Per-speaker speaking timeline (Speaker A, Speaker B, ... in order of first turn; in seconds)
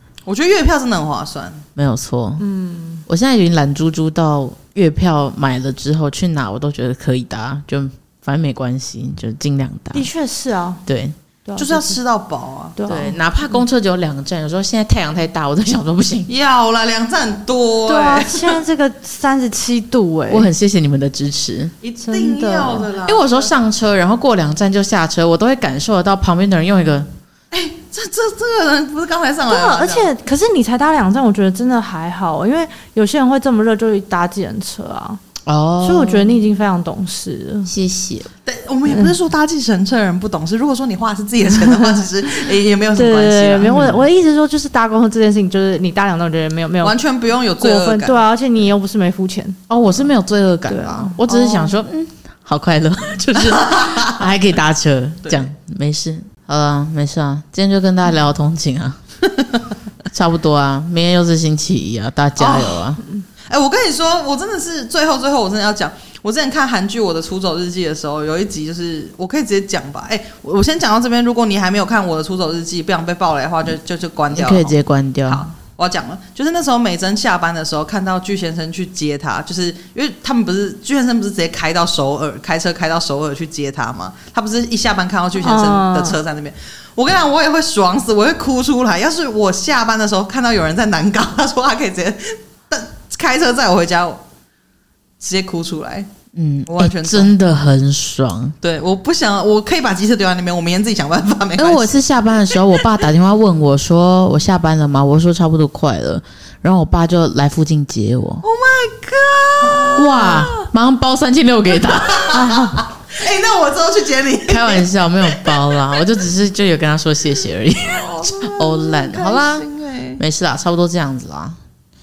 Speaker A: 0.2-1.6, 11.6-12.8, 16.3-18.6, 21.8-23.5, 27.5-30.1, 38.5-43.7, 46.8-48.2, 51.3-51.7, 62.4-62.9, 63.5-94.2, 95.2-96.1, 96.7-97.3, 98.6-101.9, 108.4-110.7, 111.8-115.7, 117.8-120.2
Speaker B: 1.8-2.4, 3.1-10.1, 10.8-11.1, 12.9-16.3, 20.3-21.7, 23.0-27.1, 35.5-36.4, 37.7-38.3, 43.6-44.0, 49.7-59.0, 60.1-63.0, 74.3-75.5, 96.3-98.6, 101.5-108.4, 109.9-112.7, 114.5-119.7, 120.2-121.6
Speaker C: 2.4-3.0, 9.9-10.8, 11.4-12.0, 12.8-13.2, 17.9-20.5, 22.0-22.9, 29.5-35.2, 35.8-37.7, 43.0-47.0, 47.6-49.6, 50.7-51.2, 85.4-86.2, 112.4-112.7